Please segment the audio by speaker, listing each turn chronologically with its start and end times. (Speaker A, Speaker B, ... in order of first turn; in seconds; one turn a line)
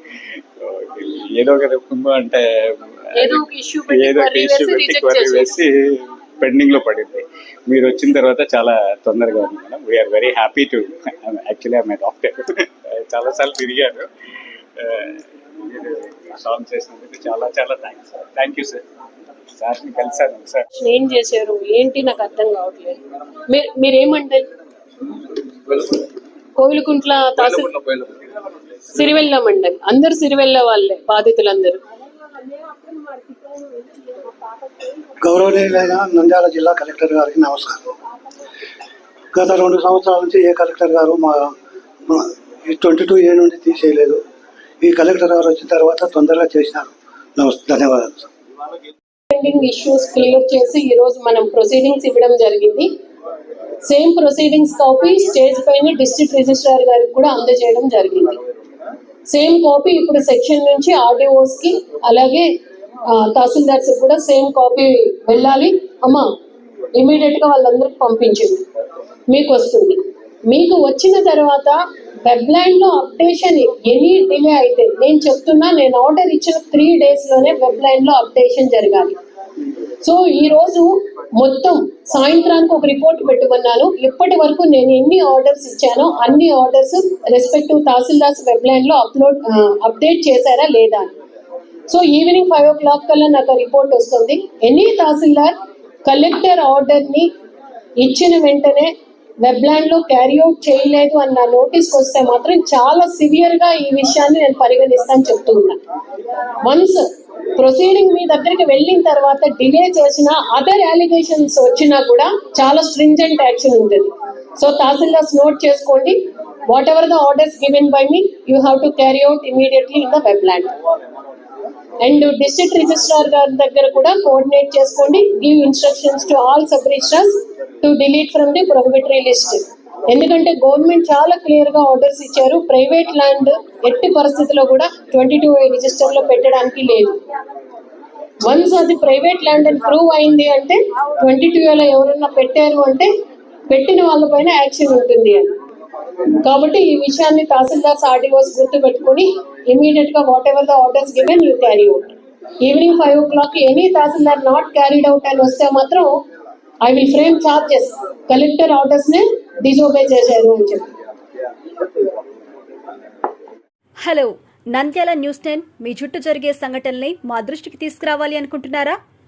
Speaker A: 0.6-14.1
Speaker B: 3.2-5.6
Speaker A: 14.8-18.8
Speaker A: 19.6-20.6
Speaker B: 20.8-23.0
Speaker B: 23.5-24.5
Speaker B: 26.6-27.7
Speaker B: 28.9-31.8
Speaker B: 32.6-34.3
Speaker C: 35.2-37.8
Speaker C: 39.3-41.5
Speaker C: 42.1-44.2
Speaker C: 44.8-48.3
Speaker B: 49.3-52.9
Speaker B: 53.8-58.4
Speaker B: 59.3-62.5
Speaker B: 63.1-66.2
Speaker B: 67.0-68.6
Speaker B: 69.3-79.2
Speaker B: 80.0-91.1
Speaker B: 91.9-95.5
Speaker B: 96.0-97.3
Speaker B: 98.0-105.8
Speaker B: 106.6-107.0
Speaker B: 107.6-120.7
Speaker B: 122.0-127.3
Speaker B: 127.8-137.2
Speaker B: 138.4-143.1
Speaker B: 143.7-145.5
Speaker B: 146.4-156.1
Speaker B: 156.8-160.8
Speaker D: 164.0-169.0